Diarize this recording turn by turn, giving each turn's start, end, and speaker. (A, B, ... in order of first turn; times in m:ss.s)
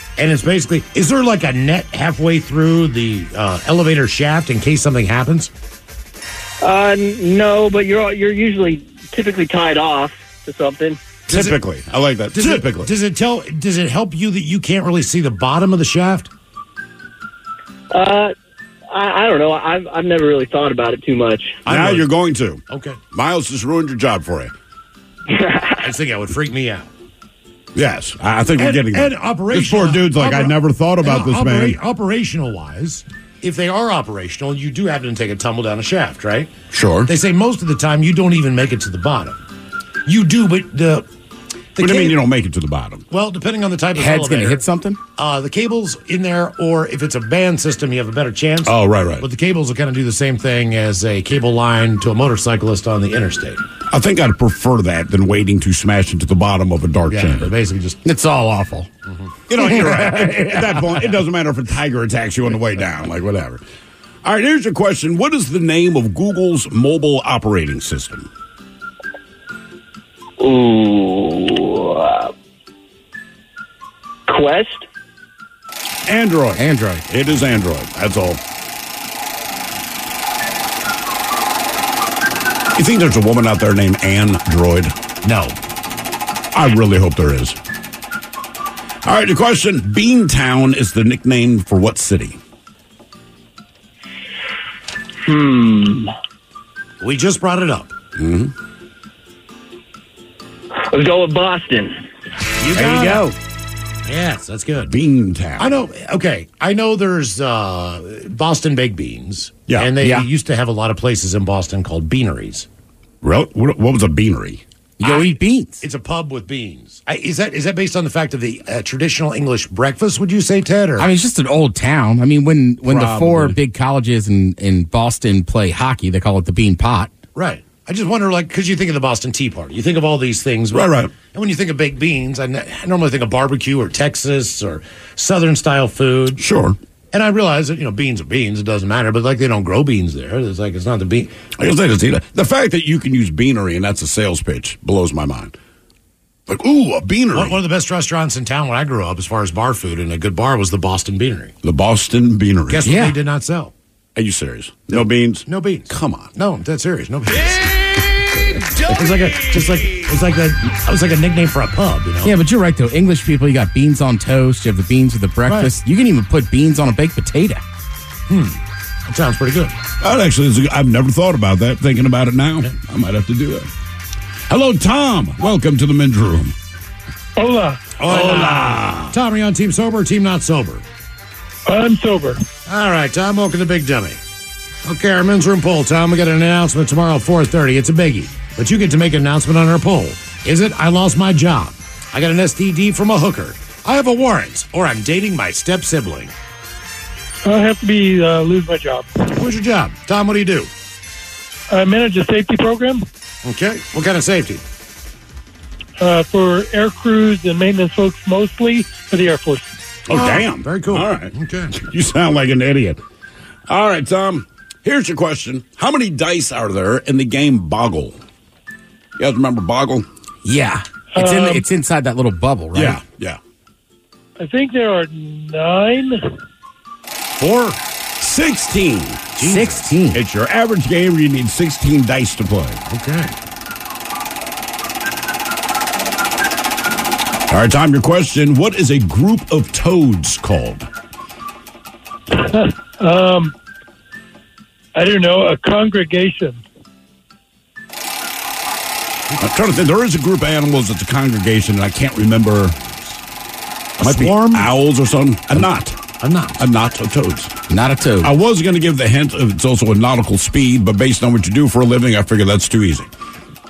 0:00.2-0:05.5 A
0:06.6-0:11.0 B
0:11.3-0:11.6 A
0:11.3-0:12.9 C
0:12.3-0:16.3 A
0:17.9-0:18.3 B
0:18.9-0:21.6 B
0:21.7-0:22.1 A
0:21.7-0:24.5 C
0:22.7-0:23.0 A
0:25.3-0:25.7 B
0:25.8-0:26.9 A
0:27.8-0:31.8 C
0:28.6-0:36.5 A
0:36.7-0:37.1 C
0:37.0-0:39.4 A
0:40.1-0:41.1 A
0:41.8-0:42.2 A
0:41.8-0:43.0 C
0:43.1-0:44.6 A
0:44.0-0:45.0 D
0:45.2-0:53.6 A
0:48.6-0:49.3 C
0:53.9-0:57.5 C
0:57.0-0:58.0 A
0:58.0-0:58.9 D
0:59.1-0:59.4 A
0:59.5-1:03.6 C
0:59.6-1:00.9 D
1:04.2-1:08.3 C
1:10.4-1:12.3 B
1:14.3-1:14.9 B
1:16.1-1:18.4 C
1:16.6-1:17.0 D
1:22.8-1:24.9 C
1:25.2-1:25.6 A
1:26.5-1:27.6 C
1:29.0-1:32.4 C
1:35.2-1:36.1 B
1:37.0-1:37.9 A
1:38.2-1:38.5 C
1:40.8-1:42.0 B
1:42.6-1:43.3 A
1:42.7-1:43.3 D
1:44.1-1:45.0 A
1:44.9-1:45.8 C
1:45.6-1:52.7 A
1:50.0-1:50.3 D
1:53.2-1:54.6 C
1:55.0-1:55.8 D
1:55.0-2:01.1 A
2:01.0-2:07.1 D
2:02.9-2:03.6 C
2:07.4-2:16.5 A
2:10.7-2:11.2 C
2:16.4-2:16.8 C
2:17.1-2:21.3 A
2:21.6-2:25.6 C
2:26.5-2:27.6 C
2:27.3-2:31.5 A
2:31.6-2:32.9 C
2:32.7-2:33.7 A
2:32.8-2:33.2 D
2:34.2-2:36.3 C
2:34.9-2:37.7 A
2:38.8-2:42.3 A
2:42.2-2:47.6 D
2:45.5-2:45.7 A
2:48.3-2:49.8 A
2:50.0-2:53.7 C
2:54.5-2:56.6 C
2:57.4-2:57.8 E
2:58.0-3:00.8 A
2:58.0-2:59.2 C
3:01.7-3:02.4 E
3:02.7-3:04.2 A
3:04.8-3:16.3 A
3:17.4-3:19.2 E
3:19.3-3:20.7 A
3:21.7-3:23.0 E
3:23.4-3:24.6 A
3:26.0-3:29.7 E
3:30.1-3:33.0 C
3:30.1-3:31.8 A
3:33.7-3:38.2 C
3:39.2-3:40.1 C
3:40.4-3:43.0 D
3:41.2-3:41.6 E
3:42.7-3:43.4 C
3:44.4-3:46.2 E
3:47.4-3:47.8 A
3:48.2-3:49.4 C
3:49.4-3:49.8 A
3:49.4-3:50.2 D
3:50.1-3:52.8 C
3:52.9-3:53.3 A
3:57.5-4:00.9 C
4:02.3-4:03.5 E
4:05.0-4:06.6 E
4:09.4-4:13.2 C
4:14.0-4:14.7 A
4:14.0-4:16.0 C
4:16.2-4:16.6 A
4:16.6-4:17.5 C
4:17.7-4:18.3 D
4:18.2-4:23.1 C